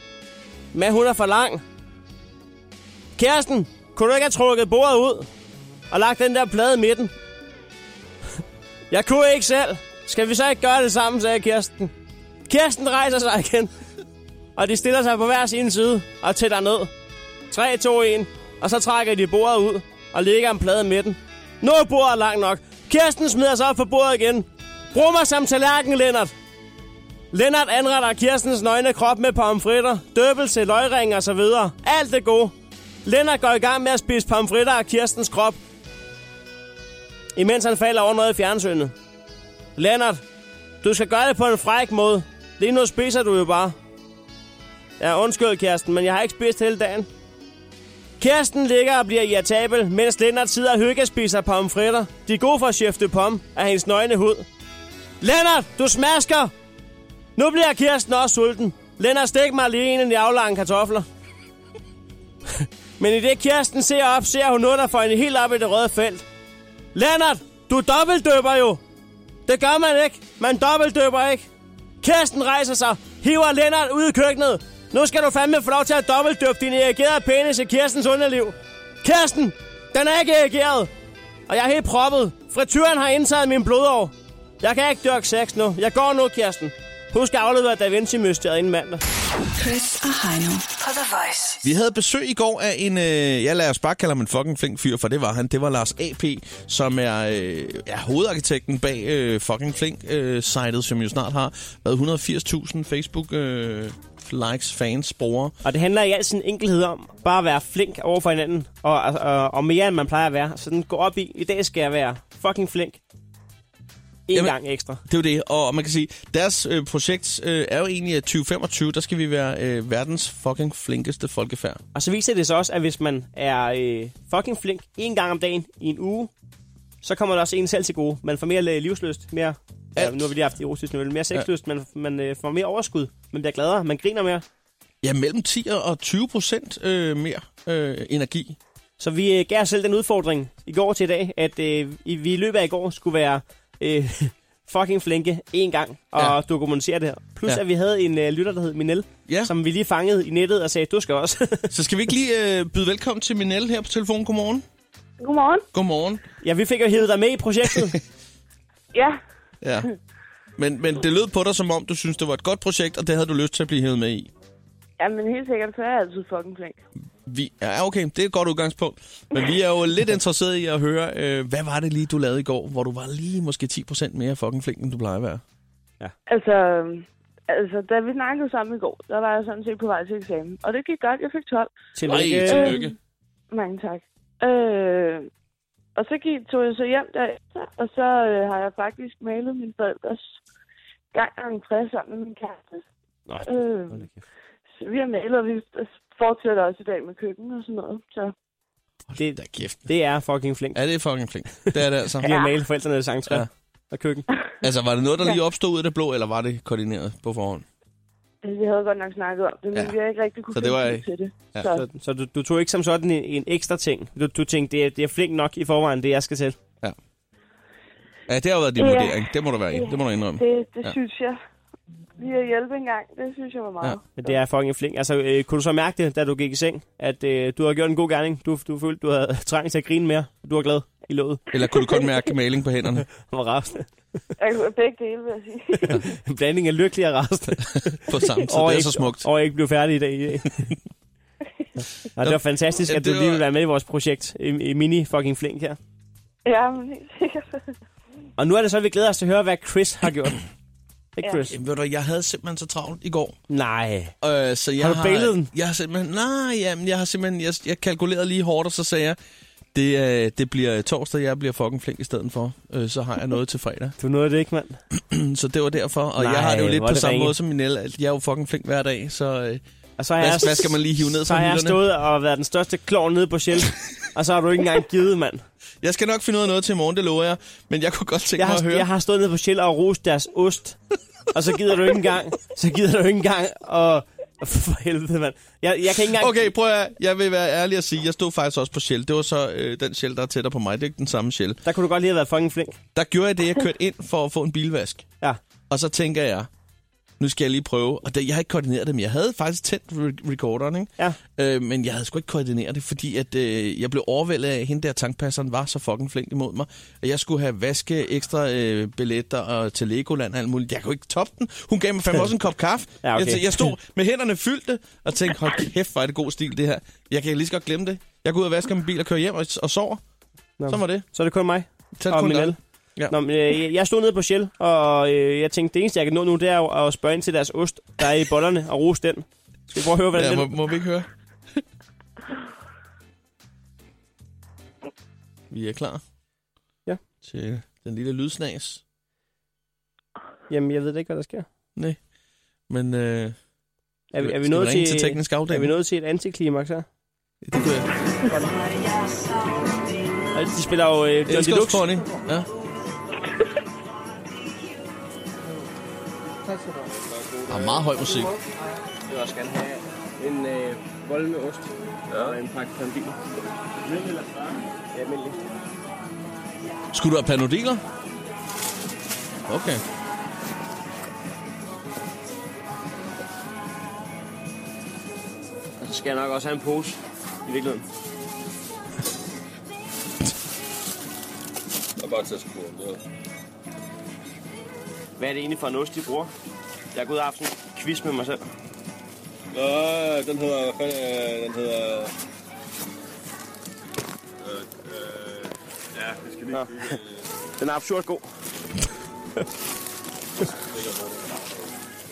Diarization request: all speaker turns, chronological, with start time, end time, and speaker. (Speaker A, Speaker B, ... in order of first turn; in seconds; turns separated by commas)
Speaker A: 0.7-1.6, Speaker A: 3.2-5.3, Speaker A: 5.9-7.1, Speaker A: 8.9-11.9, Speaker A: 12.5-13.7, Speaker A: 14.6-16.9, Speaker A: 17.5-26.3, Speaker A: 27.3-32.5, Speaker A: 33.0-35.6, Speaker A: 37.4-38.9, Speaker A: 39.8-40.2, Speaker A: 40.8-43.7, Speaker A: 45.0-47.1, Speaker A: 48.2-54.5, Speaker A: 55.2-56.5, Speaker A: 57.4-61.0, Speaker A: 62.6-66.2, Speaker A: 66.9-68.8, Speaker A: 69.5-71.5, Speaker A: 72.0-80.9, Speaker A: 81.5-89.0, Speaker B: 89.6-91.6, Speaker C: 91.6-105.5, Speaker A: 105.6-113.0, Speaker A: 114.3-115.0, Speaker C: 114.3-121.8, Speaker A: 121.9-126.3, Speaker A: 127.0-134.4, Speaker C: 129.9-130.3, Speaker C: 135.0-138.6, Speaker A: 139.0-151.7, Speaker C: 151.7-154.6, Speaker D: 155.2-155.7, Speaker C: 155.7-156.2, Speaker A: 156.4-158.0, Speaker D: 158.9-159.2, Speaker C: 159.6-159.9, Speaker C: 160.6-164.3, Speaker D: 165.0-166.8, Speaker C: 167.2-175.4, Speaker D: 176.3-181.7, Speaker A: 181.9-182.8, Speaker C: 182.1-182.9, Speaker D: 182.4-182.9, Speaker D: 183.5-185.3, Speaker D: 185.9-190.3, Speaker D: 191.1-192.8, Speaker A: 193.3-194.2, Speaker D: 193.4-194.1, Speaker D: 194.8-198.3, Speaker C: 199.1-199.9, Speaker A: 199.2-200.8, Speaker C: 200.7-202.3, Speaker A: 201.6-204.3, Speaker C: 204.6-207.7, Speaker D: 208.4-211.8, Speaker C: 210.5-211.7, Speaker A: 211.7-216.6, Speaker C: 218.3-220.9, Speaker D: 218.8-221.4, Speaker D: 222.2-224.4, Speaker A: 224.1-231.4, Speaker C: 231.5-233.1, Speaker A: 233.2-233.9, Speaker D: 234.4-236.0, Speaker A: 235.7-240.8, Speaker C: 237.9-239.2, Speaker A: 242.1-245.8, Speaker C: 242.2-243.4, Speaker D: 246.4-247.7, Speaker A: 248.4-250.4, Speaker A: 251.2-251.5, Speaker D: 251.2-251.5, Speaker C: 251.5-253.4, Speaker A: 253.5-254.1, Speaker C: 254.2-259.2, Speaker A: 254.8-255.5, Speaker C: 259.7-263.9, Speaker A: 264.0-264.8, Speaker C: 264.9-269.6, Speaker A: 266.2-267.3, Speaker A: 270.0-275.4, Speaker C: 270.2-271.8, Speaker C: 275.8-278.9, Speaker A: 278.4-280.8, Speaker A: 281.3-286.5, Speaker C: 286.1-291.6, Speaker A: 291.6-292.8, Speaker C: 292.9-295.0, Speaker C: 295.7-296.5, Speaker C: 297.2-320.0, Speaker A: 313.0-313.7, Speaker A: 320.6-322.6, Speaker C: 320.7-321.1, Speaker C: 321.9-323.1, Speaker A: 323.1-330.5, Speaker C: 330.1-331.6, Speaker C: 335.5-336.0, Speaker C: 337.2-338.8, Speaker A: 340.5-341.5, Speaker C: 342.7-343.4, Speaker A: 344.1-346.9, Speaker C: 344.2-345.7, Speaker C: 347.4-347.9, Speaker A: 350.3-351.9, Speaker C: 351.3-352.5, Speaker E: 356.8-357.8, Speaker C: 357.5-358.3, Speaker F: 359.1-363.2, Speaker E: 362.1-362.4, Speaker E: 363.8-364.6, Speaker F: 364.9-365.4, Speaker C: 366.9-367.8, Speaker C: 369.5-369.8, Speaker F: 375.8-377.8, Speaker E: 382.0-383.0, Speaker F: 385.2-386.3, Speaker F: 386.9-388.2, Speaker A: 387.8-388.3, Speaker E: 389.5-392.1, Speaker E: 394.4-397.2, Speaker A: 397.6-398.2, Speaker E: 400.4-401.7